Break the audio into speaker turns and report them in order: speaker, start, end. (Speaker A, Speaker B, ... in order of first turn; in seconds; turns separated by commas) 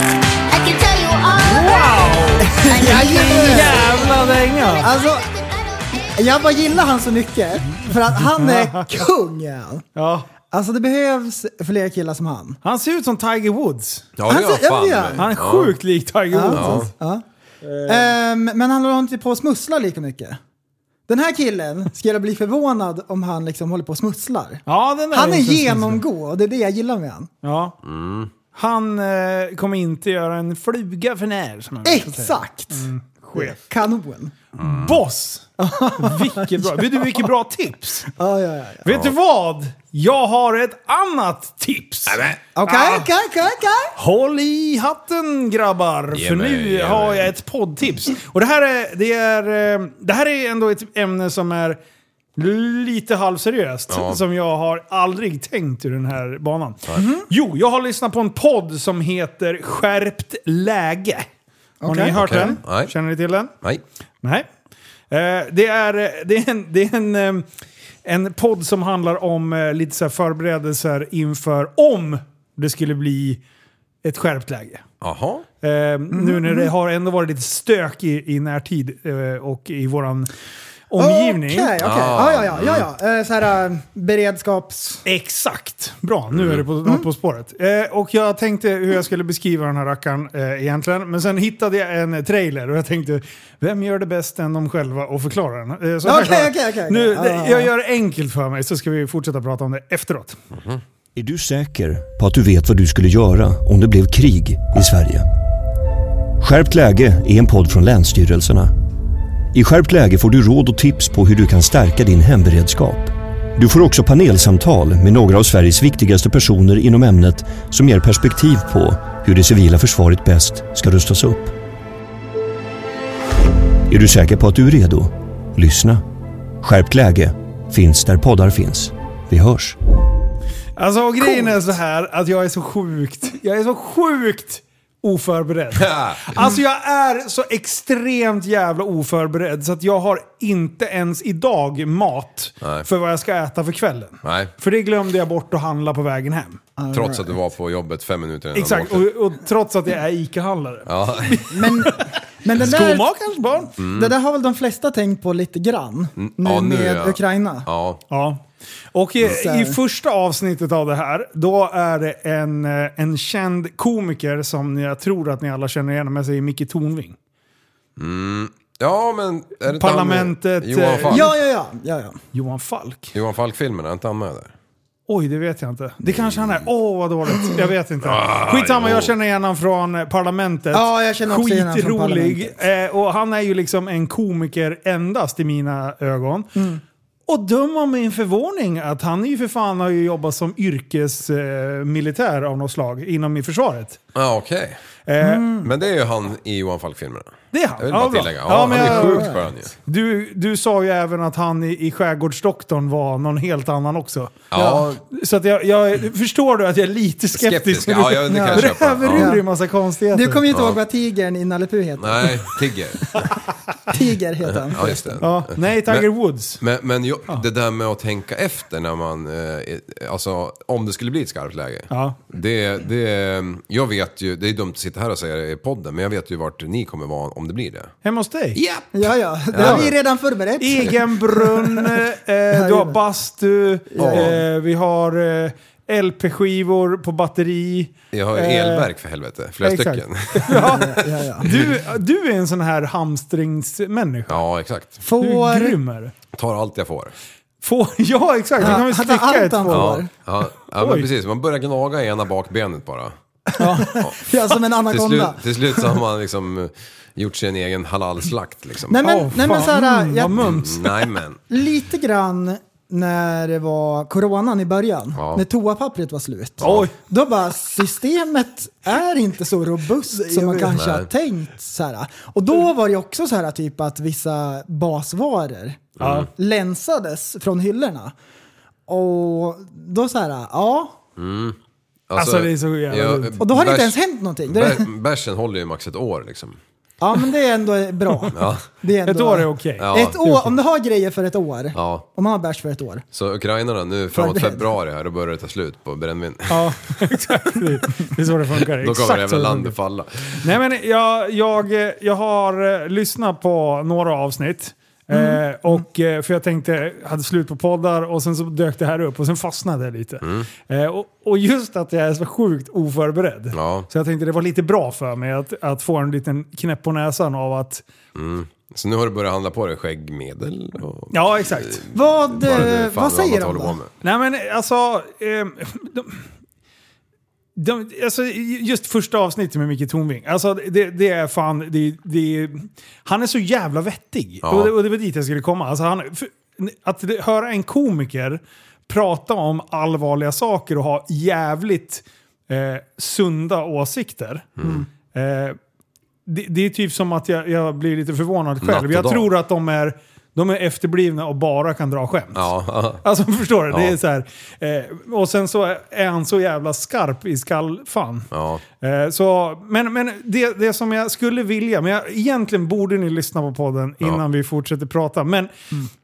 Speaker A: 0.5-6.7, Speaker B: 1.4-4.9, Speaker C: 2.4-3.9, Speaker C: 4.8-5.3, Speaker C: 6.2-9.8, Speaker B: 7.7-9.0, Speaker B: 10.0-10.3, Speaker C: 10.5-12.6, Speaker B: 12.6-14.1, Speaker D: 14.2-15.8, Speaker C: 14.3-15.2, Speaker B: 15.2-16.9, Speaker C: 16.3-17.2, Speaker D: 16.5-16.9, Speaker B: 17.6-18.1, Speaker C: 17.9-20.4, Speaker C: 21.1-27.3, Speaker B: 24.7-26.0, Speaker B: 27.4-27.8, Speaker D: 27.8-28.3, Speaker B: 28.5-33.6, Speaker C: 31.8-34.3, Speaker D: 34.6-35.0, Speaker B: 34.6-35.5, Speaker C: 35.6-37.3, Speaker B: 36.0-38.1, Speaker C: 38.2-38.9, Speaker B: 38.9-43.1, Speaker D: 42.1-42.4, Speaker C: 42.5-44.0, Speaker B: 44.0-51.8, Speaker D: 46.1-47.3, Speaker B: 52.4-61.3, Speaker D: 53.9-54.2, Speaker C: 57.0-57.3, Speaker C: 61.8-62.6, Speaker B: 61.9-63.5, Speaker D: 62.1-63.0, Speaker B: 65.1-67.5, Speaker B: 68.0-73.4, Speaker B: 74.0-74.8, Speaker D: 75.0-75.5, Speaker B: 75.6-80.3, Speaker C: 76.1-76.7, Speaker B: 80.9-81.8, Speaker C: 81.0-85.0, Speaker D: 81.8-82.9, Speaker B: 85.0-100.4, Speaker D: 86.3-86.7, Speaker C: 96.0-97.7, Speaker E: 101.2-105.3, Speaker E: 106.4-108.7, Speaker E: 109.5-121.5, Speaker E: 123.9-126.0, Speaker E: 126.6-129.8, Speaker B: 130.8-146.6, Speaker D: 135.8-136.3, Speaker D: 142.6-142.9, Speaker D: 144.2-144.5, Speaker C: 146.8-147.4, Speaker D: 146.9-149.1, Speaker B: 148.5-153.7, Speaker D: 150.9-151.5, Speaker C: 151.5-157.7, Speaker D: 153.8-154.1, Speaker D: 156.2-158.0, Speaker B: 158.1-158.4, Speaker B: 158.9-167.2, Speaker C: 159.2-159.8, Speaker D: 168.0-171.3, Speaker B: 169.7-171.3, Speaker C: 171.1-172.2, Speaker B: 172.3-173.1, Speaker D: 173.1-174.5, Speaker B: 175.1-186.5, Speaker D: 176.1-176.6, Speaker D: 178.0-179.1, Speaker C: 180.7-182.6, Speaker C: 186.6-186.8, Speaker B: 187.3-194.0, Speaker D: 194.2-194.8, Speaker B: 195.1-195.6, Speaker C: 195.2-195.7, Speaker D: 195.6-199.7, Speaker B: 197.5-204.4, Speaker C: 198.5-199.5, Speaker D: 204.5-205.0, Speaker C: 204.6-204.9, Speaker B: 205.1-210.4, Speaker D: 207.3-209.4, Speaker C: 208.2-209.4, Speaker C: 210.1-212.6, Speaker D: 210.5-210.8, Speaker D: 212.0-213.4, Speaker C: 213.9-215.2, Speaker D: 214.7-227.9, Speaker B: 215.2-216.6, Speaker B: 221.9-222.2, Speaker B: 228.0-228.6, Speaker D: 228.6-229.9, Speaker C: 228.9-233.0, Speaker B: 229.6-229.9, Speaker B: 230.6-238.9, Speaker C: 233.9-234.4, Speaker D: 234.0-234.4, Speaker D: 238.1-241.7, Speaker B: 239.6-244.4, Speaker C: 240.5-241.5, Speaker D: 244.3-245.0, Speaker C: 245.0-245.8, Speaker B: 245.2-246.1, Speaker D: 246.3-247.1, Speaker B: 247.6-250.0, Speaker C: 248.6-250.1, Speaker D: 249.7-253.1, Speaker B: 250.8-251.1, Speaker C: 253.6-255.8, Speaker B: 253.6-254.0, Speaker D: 253.9-254.2, Speaker D: 254.8-259.0, Speaker C: 258.9-260.6, Speaker B: 259.0-261.0, Speaker D: 260.3-261.4, Speaker C: 261.5-278.1, Speaker D: 265.1-265.4, Speaker D: 266.6-266.9, Speaker B: 266.6-266.9, Speaker B: 270.2-270.7, Speaker D: 270.7-271.1, Speaker D: 276.0-276.3, Speaker B: 276.0-276.3, Speaker C: 278.9-281.0, Speaker D: 281.2-281.6, Speaker D: 282.1-286.6, Speaker B: 282.2-283.4, Speaker C: 283.4-284.9, Speaker C: 287.0-293.1, Speaker D: 288.3-288.7, Speaker B: 289.1-290.6, Speaker D: 289.8-290.2, Speaker D: 291.8-292.1, Speaker D: 293.1-297.0, Speaker C: 294.1-294.7, Speaker B: 296.5-299.8, Speaker D: 298.7-300.5, Speaker B: 300.4-317.8, Speaker C: 305.1-305.8, Speaker D: 310.2-310.5, Speaker D: 313.5-313.9, Speaker D: 318.1-323.9, Speaker B: 321.1-321.9, Speaker C: 321.9-323.8, Speaker B: 324.0-326.3, Speaker B: 327.6-345.6, Speaker D: 334.4-334.8, Speaker D: 344.6-344.9, Speaker B: 346.3-352.5, Speaker D: 348.6-349.3, Speaker D: 352.4-353.0, Speaker B: 353.0-358.3, Speaker D: 353.7-354.0, Speaker D: 358.3-358.6, Speaker B: 358.8-365.8